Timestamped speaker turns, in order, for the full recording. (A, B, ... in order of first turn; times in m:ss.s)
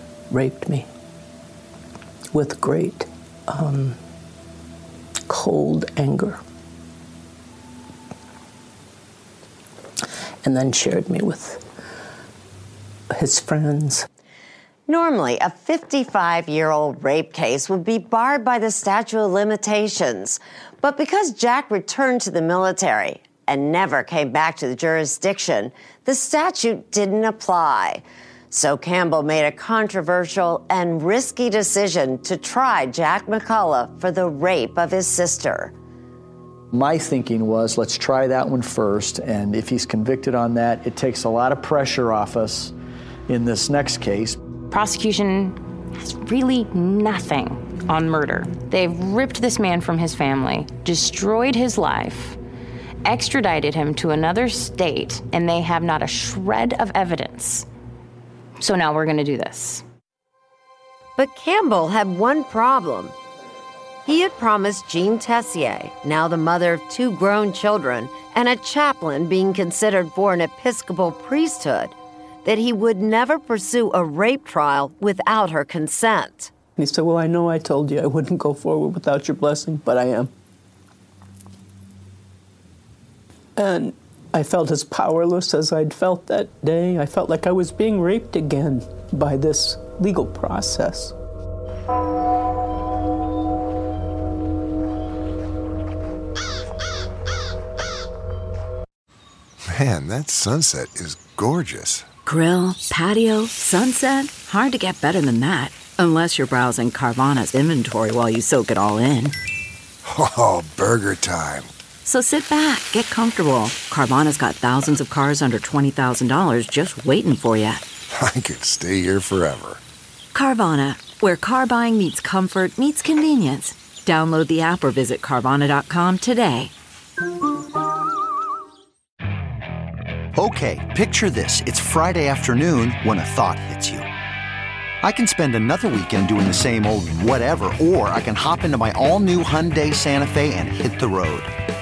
0:00.3-0:00.9 A
0:02.3-0:04.0 A
0:05.3-0:06.4 A
0:10.4-0:11.6 A
0:13.1-0:14.0 A
0:14.9-0:35.7 B
0:36.7-0:42.7 C
0:43.3-0:44.4 C
0:44.7-0:52.4 D
0:53.0-0:57.6 D
0:58.6-0:59.8 D
1:01.2-1:03.1 B
1:04.0-1:16.5 B
1:16.8-1:20.3 A
1:23.6-1:31.1 A
1:39.7-1:42.0 E
1:42.2-1:49.3 F
1:50.0-1:51.7 E
1:52.0-1:57.8 F
1:58.1-1:59.8 E
2:00.3-2:06.7 F
2:10.4-2:14.0 G
2:15.0-2:21.5 G